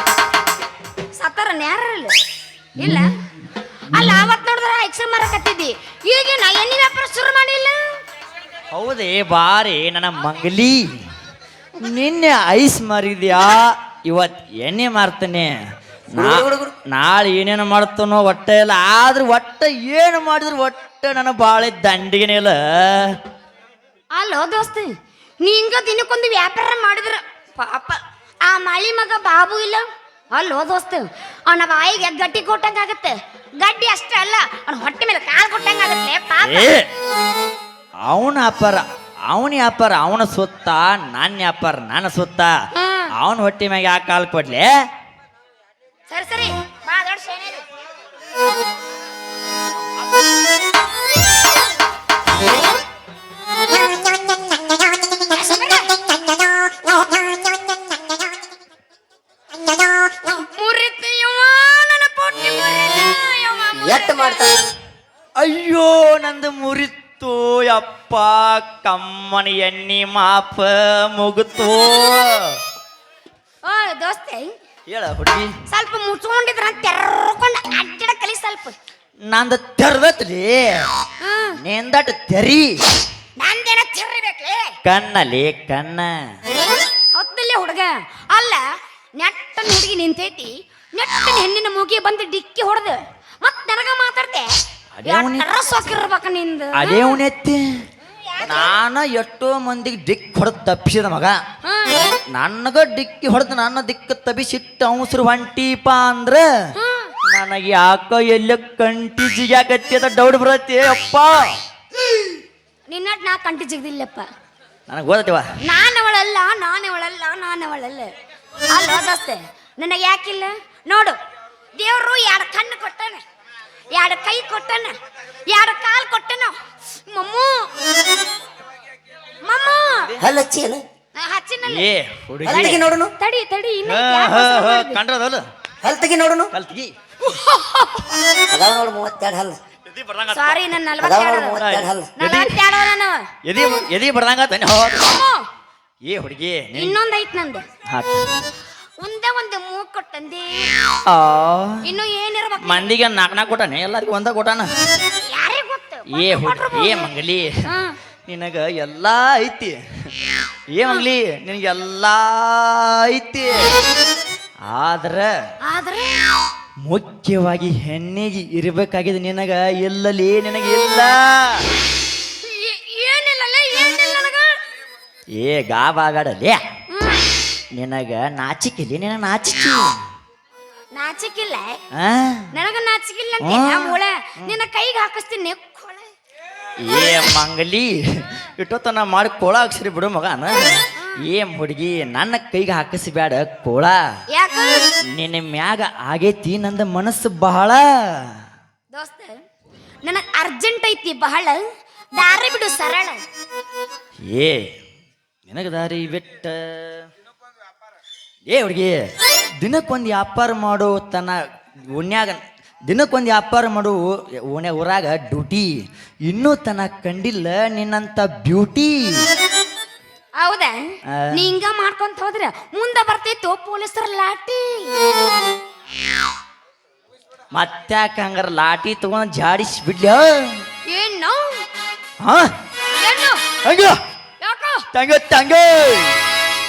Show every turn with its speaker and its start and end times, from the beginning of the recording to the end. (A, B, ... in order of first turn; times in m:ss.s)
0:01.2-0:02.2 A
0:02.8-0:03.1 A
0:03.9-0:07.8 A
0:08.7-0:10.8 B
0:11.8-0:15.5 B
0:16.1-0:16.8 C
0:16.1-0:23.2 B
0:24.1-0:24.9 A
0:25.4-0:36.7 A
0:36.4-0:36.9 B
0:38.0-0:42.5 B
0:42.7-0:43.1 A
0:43.2-0:44.7 B
0:46.1-0:47.6 A
0:55.3-0:55.9 A
1:00.2-1:04.6 A
1:03.8-1:04.6 C
1:05.4-1:12.4 B
1:13.6-1:14.5 A
1:14.9-1:15.5 B
1:15.7-1:18.7 A
1:19.3-1:20.9 B
1:21.2-1:21.5 A
1:21.6-1:22.8 B
1:23.4-1:24.7 A
1:24.8-1:26.1 B
1:27.1-1:28.6 A
1:29.2-1:34.5 A
1:35.0-1:35.5 B
1:35.0-1:37.2 A
1:36.7-1:37.6 B
1:38.3-1:38.7 A
1:38.4-1:41.4 B
1:41.6-1:42.2 A
1:42.3-1:46.4 B
1:46.7-1:47.1 A
1:47.3-1:51.4 B
1:52.9-1:54.2 A
1:54.9-1:55.4 B
1:55.6-1:58.1 A
1:58.7-2:01.2 A
2:01.8-2:03.2 A
2:03.9-2:04.9 A
2:05.5-2:06.5 A
2:07.1-2:07.7 A
2:09.4-2:10.1 A
2:09.9-2:10.3 B
2:10.2-2:10.8 C
2:11.1-2:11.8 A
2:11.6-2:12.9 B
2:12.4-2:13.1 C
2:12.5-2:15.0 A
2:13.8-2:15.4 B
2:15.8-2:16.5 C
2:16.5-2:16.9 B
2:17.2-2:18.3 A
2:18.4-2:19.6 C
2:19.9-2:20.7 B
2:20.3-2:21.6 A
2:21.0-2:22.1 C
2:21.6-2:22.6 B
2:22.2-2:23.2 A
2:23.4-2:25.1 B
2:24.9-2:25.4 A
2:26.0-2:27.0 B
2:26.7-2:27.6 A
2:27.9-2:28.2 B
2:29.0-2:30.7 A
2:31.0-2:31.8 B
2:31.8-2:32.9 A
2:32.6-2:34.7 B
2:35.2-2:37.1 A
2:36.1-2:37.6 B
2:37.6-2:38.0 A
2:38.3-2:39.8 B
2:40.7-2:43.8 B
2:44.7-2:45.3 B
2:45.6-2:46.2 A
2:46.8-2:51.7 B
2:52.4-2:54.5 A
2:55.4-2:56.6 B
2:56.9-2:57.2 A
2:57.7-2:59.9 B
3:00.9-3:01.8 A
3:01.9-3:02.4 B
3:02.5-3:06.1 A
3:03.4-3:04.6 B
3:06.8-3:14.0 B
3:14.3-3:14.8 A
3:15.1-3:18.2 B
3:18.9-3:19.4 A
3:20.0-3:21.6 A
3:22.2-3:23.2 A
3:24.3-3:24.6 B
3:25.5-3:27.1 B
3:28.5-3:28.9 B
3:29.6-3:31.3 B
3:31.9-3:35.7 B
3:36.3-3:39.2 B
3:40.4-3:40.8 A
3:41.3-3:44.9 A
3:47.5-3:50.3 B
3:50.9-3:51.6 A
3:52.2-3:52.5 B
3:53.0-3:53.4 A
3:53.6-3:54.0 B
3:54.4-3:54.8 A
3:54.9-3:56.2 B